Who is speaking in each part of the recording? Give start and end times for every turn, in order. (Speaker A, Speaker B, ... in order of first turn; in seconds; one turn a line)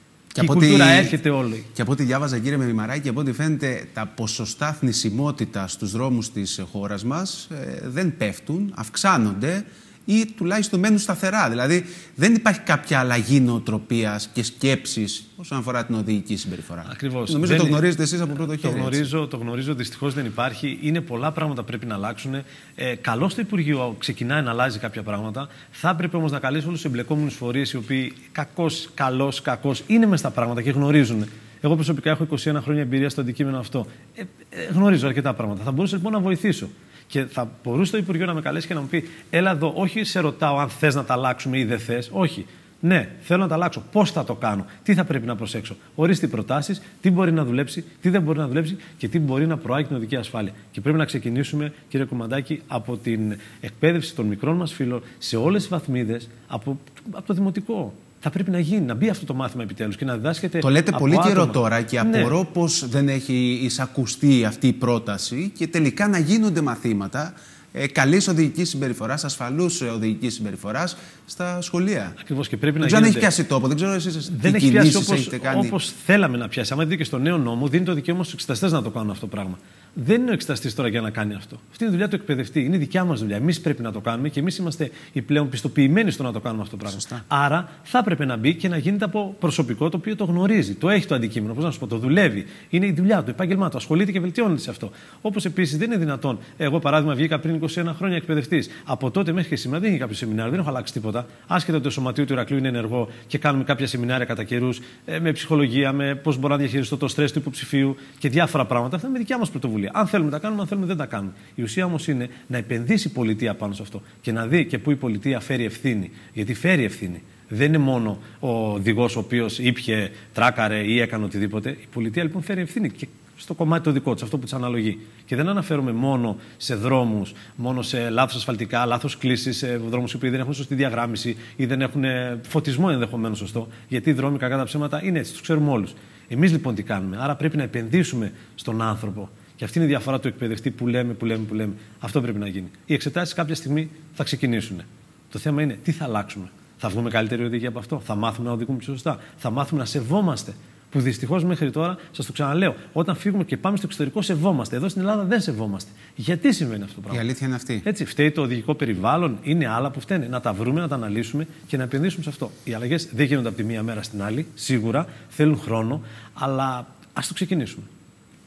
Speaker A: 0.3-1.1
Speaker B: 0.4-1.7
Speaker A: 1.7-19.1
Speaker B: 16.8-62.3
Speaker A: 60.6-72.2
Speaker B: 72.2-73.3
Speaker A: 72.8-75.8
Speaker B: 74.3-157.2
Speaker A: 86.9-87.2
Speaker A: 157.1-157.8
Speaker B: 157.8-167.9